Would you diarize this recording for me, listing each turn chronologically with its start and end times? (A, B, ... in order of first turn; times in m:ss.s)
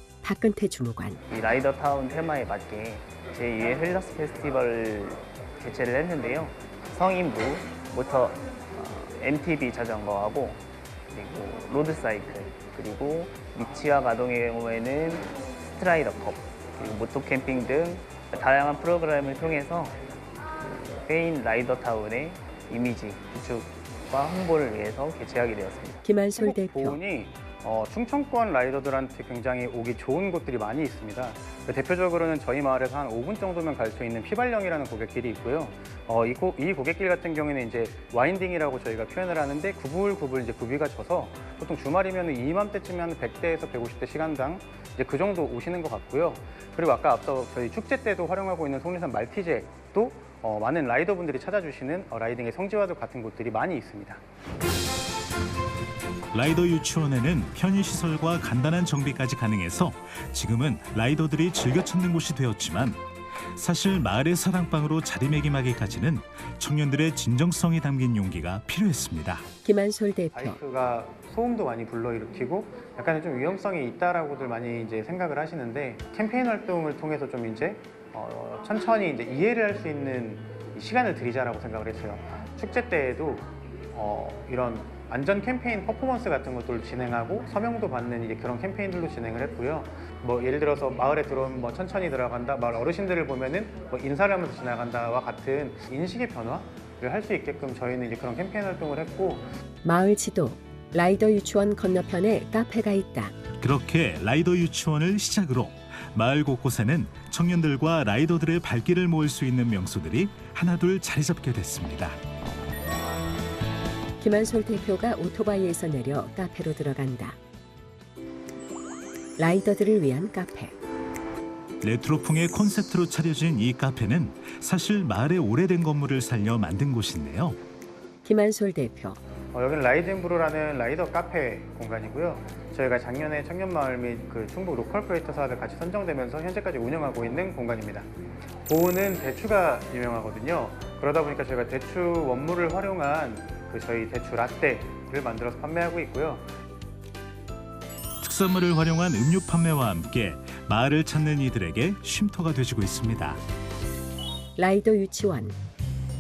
0:00.2-0:01.2 A
0:01.3-0:20.0 B
0:20.6-0:26.0 B
0:26.0-0:27.0 A
0:26.3-0:54.2 C
0:56.3-1:03.0 D
1:03.6-1:09.5 D
1:09.6-1:10.6 A
1:10.3-1:39.5 C
1:39.8-1:43.4 A
1:43.6-1:52.2 D
1:54.2-1:57.4 A
1:59.4-2:00.7 A
2:01.8-2:07.6 D
2:08.2-2:09.2 A
2:09.5-2:18.1 C
2:18.6-2:26.5 C
2:28.2-2:33.4 D
2:34.6-2:35.6 A